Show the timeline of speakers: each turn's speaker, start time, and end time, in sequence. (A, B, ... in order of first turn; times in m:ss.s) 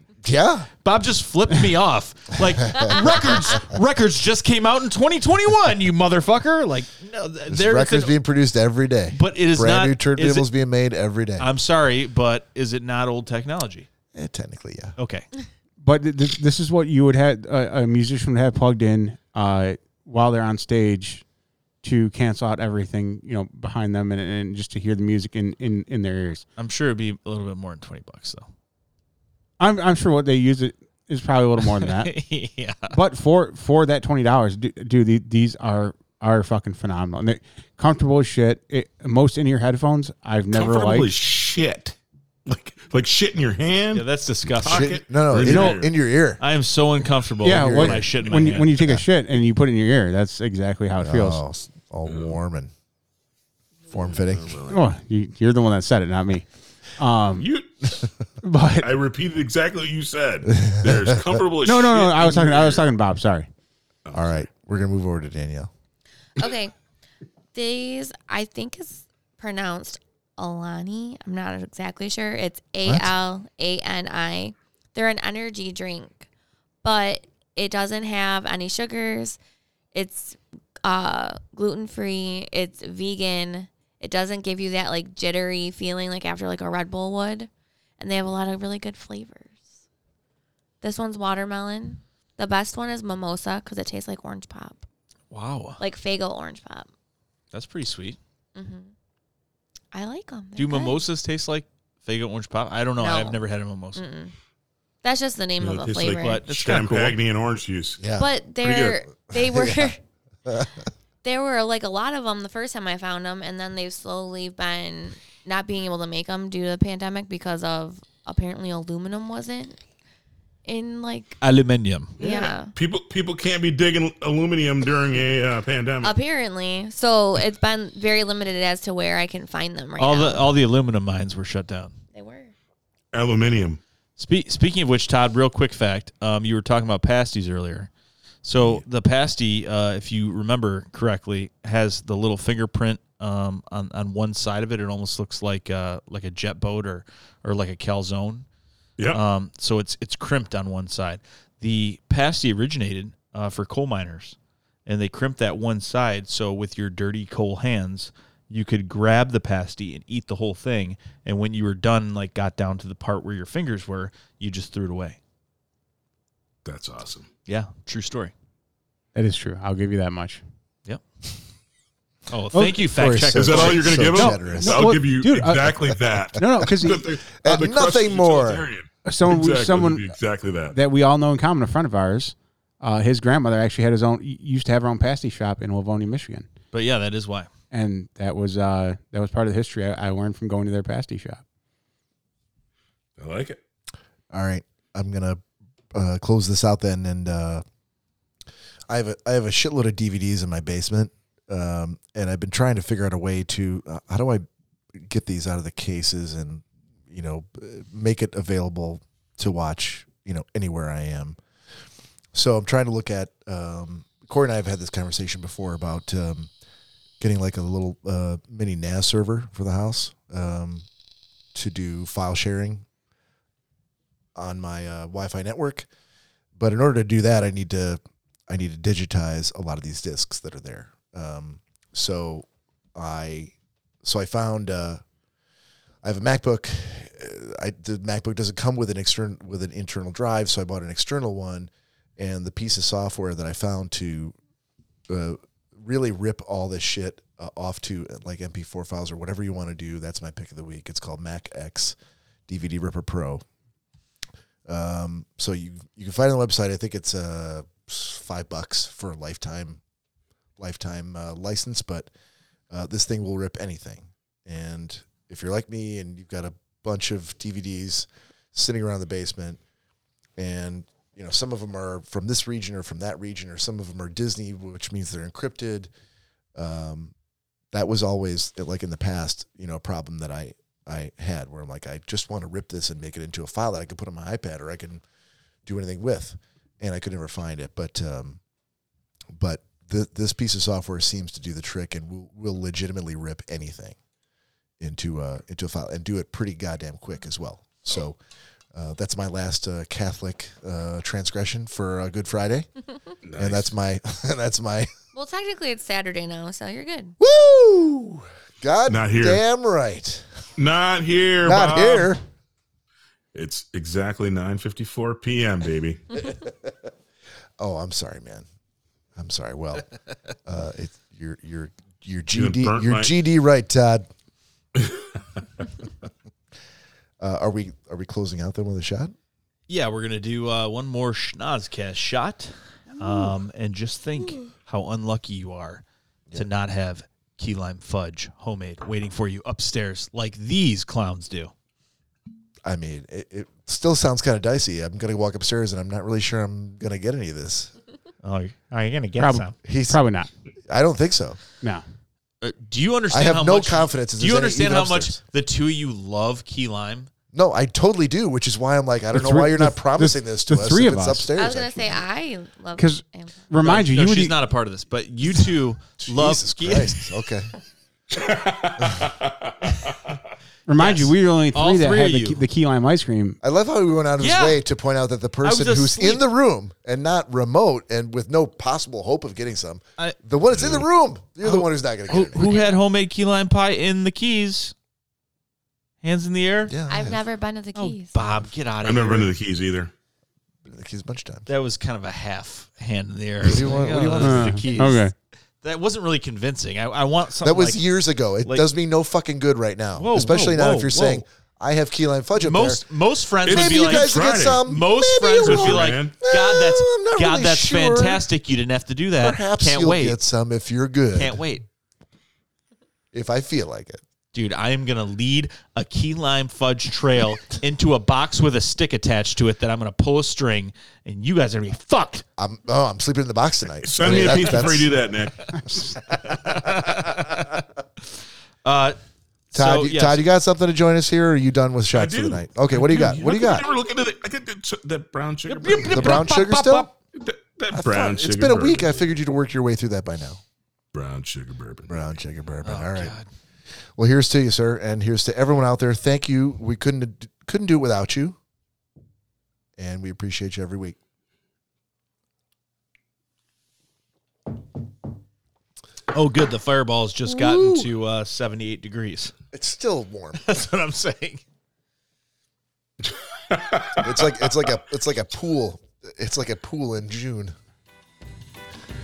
0:00.2-0:00.7 A
0:00.8-0:08.2 B
0:02.8-0:03.6 C
0:07.5-0:11.4 A
0:09.1-0:10.5 B
0:11.4-0:13.9 B
0:14.1-0:15.0 A
0:15.0-0:15.2 B
0:15.8-0:21.2 D
0:21.8-0:26.4 D
0:26.6-0:28.4 B
0:29.6-0:32.1 D
0:31.7-0:33.0 B
0:32.9-0:41.2 D
0:40.5-0:44.0 E
0:43.9-0:45.0 B
0:44.6-0:45.9 E
0:44.6-0:46.4 A
0:45.4-0:45.7 D
0:46.4-0:48.7 B
0:47.4-0:49.0 A
0:47.4-0:51.4 D
0:51.0-0:52.7 A
0:52.1-0:52.3 E
0:53.9-0:54.6 A
0:53.9-0:54.8 E
0:54.7-0:56.4 D
0:57.0-0:57.5 D
0:57.4-0:57.9 E
0:58.4-0:58.9 D
0:58.8-1:02.8 E
1:00.5-1:01.2 A
1:01.6-1:03.5 D
1:04.0-1:04.5 E
1:04.1-1:05.7 A
1:06.4-1:06.7 C
1:07.5-1:16.3 C
1:12.8-1:13.1 A
1:16.8-1:19.4 C
1:19.9-1:29.6 C
1:30.8-1:34.8 C
1:35.3-1:35.8 B
1:35.8-1:36.9 C
1:37.5-1:38.2 B
1:38.5-1:38.9 C
1:39.9-1:41.0 C
1:40.6-1:44.0 B
1:43.0-1:43.4 C
1:44.0-1:44.3 C
1:45.0-1:46.4 C
1:45.6-1:48.0 E
1:46.2-1:47.2 B
1:48.0-1:48.3 A
1:48.1-1:50.0 C
1:48.6-1:49.0 E
1:49.3-1:49.9 A
1:50.4-1:50.8 A
1:51.2-1:59.8 C
2:00.6-2:01.4 C
2:01.4-2:02.5 B
2:02.2-2:02.7 C
2:02.2-2:06.1 E
2:06.0-2:10.5 C
2:10.0-2:12.0 B
2:12.1-2:12.5 C
2:13.1-2:13.8 E
2:14.2-2:17.9 B
2:18.4-2:28.4 B
2:29.1-2:45.2 B
2:46.6-2:47.3 E
2:47.4-2:48.3 B
2:49.1-2:50.4 D
2:52.3-2:54.0 B
2:52.9-2:54.9 A
2:53.4-3:00.8 E
2:54.1-2:55.8 D
2:56.4-2:57.0 D
2:57.3-2:58.7 A
2:59.0-3:00.1 D
3:00.7-3:06.5 D
3:06.7-3:07.5 B
3:07.7-3:11.4 D
3:13.2-3:13.6 E
3:14.3-3:15.4 A
3:15.9-3:17.6 A
3:18.9-3:31.4 A
3:32.3-3:36.5 A
3:37.2-3:40.8 A
3:41.5-3:42.8 A
3:44.4-3:45.9 A
3:46.6-3:53.5 A
3:54.0-3:55.0 A
3:56.0-4:04.3 A
4:05.1-4:12.0 A
4:12.5-4:13.4 A
4:14.6-4:19.8 A
4:20.6-4:22.1 A
4:22.7-4:29.6 A
4:30.4-4:35.9 A
4:36.5-4:37.1 A
4:37.7-4:45.0 A
4:45.6-4:48.4 A
4:49.4-4:54.0 A
4:54.8-4:58.2 A
4:58.7-5:02.7 A
5:03.2-5:03.7 E
5:03.4-5:04.9 A
5:05.1-5:07.2 C
5:07.2-5:10.2 A
5:08.9-5:09.4 E
5:10.6-5:12.1 E
5:11.4-5:12.2 A
5:13.3-5:16.0 E
5:16.4-5:16.7 A
5:17.6-5:18.4 A
5:19.2-5:19.9 A
5:20.4-5:24.0 A
5:22.3-5:23.1 E
5:24.8-5:25.1 E
5:27.2-5:29.1 A
5:29.7-5:35.8 B
5:36.3-5:41.5 B
5:42.6-5:47.7 A
5:48.2-5:49.5 B
5:49.1-5:50.3 D
5:49.6-5:50.0 A
5:50.7-5:51.4 A
5:52.4-5:57.1 B
5:53.1-5:55.2 A
5:57.3-6:02.0 A
5:59.1-6:01.3 D
6:01.4-6:03.4 C
6:02.8-6:04.4 D
6:03.6-6:07.1 B
6:06.0-6:07.5 A
6:08.1-6:09.5 E
6:08.8-6:09.1 A
6:10.7-6:13.4 D
6:10.8-6:12.4 B
6:13.4-6:22.5 A
6:14.2-6:14.6 B
6:15.4-6:16.2 B
6:20.0-6:20.8 B
6:21.4-6:24.7 B
6:22.4-6:22.8 C
6:26.0-6:26.7 B
6:26.6-6:27.2 A
6:26.9-6:28.1 C
6:27.7-6:29.3 B
6:28.8-6:29.9 E
6:30.6-6:31.5 A
6:31.5-6:35.1 B
6:33.4-6:34.7 A
6:34.2-6:35.1 D
6:35.6-6:37.8 B
6:37.4-6:42.8 A
6:40.0-6:41.2 B
6:42.4-6:50.2 B
6:43.4-6:44.6 E
6:43.5-6:48.2 A
6:45.4-6:46.2 E
6:49.2-6:51.4 A
6:51.1-6:51.6 B
6:53.1-6:54.0 A
6:54.3-7:02.2 B
7:02.4-7:04.9 A
7:03.8-7:05.6 E
7:04.1-7:04.4 B
7:06.1-7:08.1 B
7:08.6-7:09.0 B
7:09.5-7:10.2 B
7:09.5-7:13.7 A
7:11.9-7:16.2 E
7:15.5-7:16.9 B
7:15.8-7:16.9 A
7:17.2-7:18.9 E
7:17.7-7:20.4 A
7:20.9-7:22.1 E
7:21.9-7:23.2 A
7:22.6-7:23.2 B
7:24.0-7:28.4 A
7:29.8-7:31.0 A
7:36.1-7:39.3 B
7:37.2-7:37.9 A
7:39.5-7:40.6 A
7:40.4-7:41.4 B
7:43.5-7:44.0 E
7:44.0-7:47.5 A